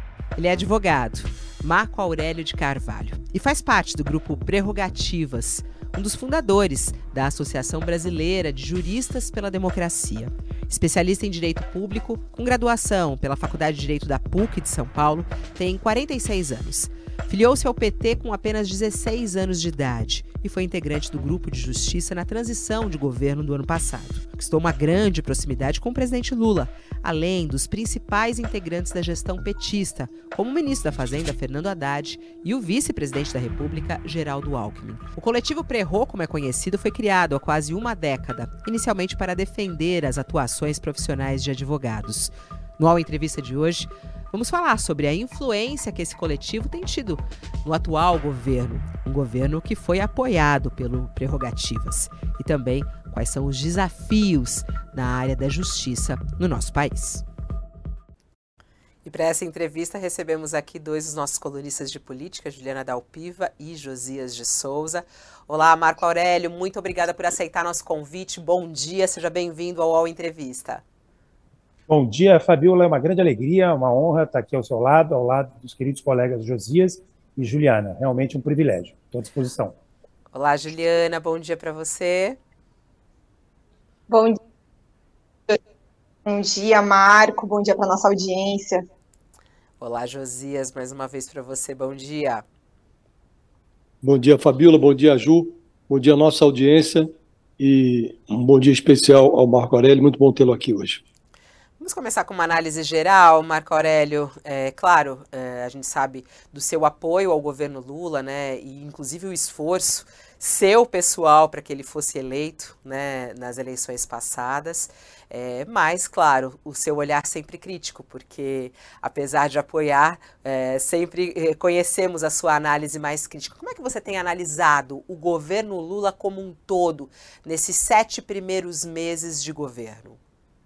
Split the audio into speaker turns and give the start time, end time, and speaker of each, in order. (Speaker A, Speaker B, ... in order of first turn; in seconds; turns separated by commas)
Speaker A: 0.3-57.2, Speaker A: 59.0-70.8, Speaker B: 71.9-79.8, Speaker A: 80.3-82.4, Speaker C: 84.1-84.4, Speaker C: 86.2-88.8, Speaker A: 89.8-92.4, Speaker D: 94.0-101.0, Speaker A: 101.8-130.2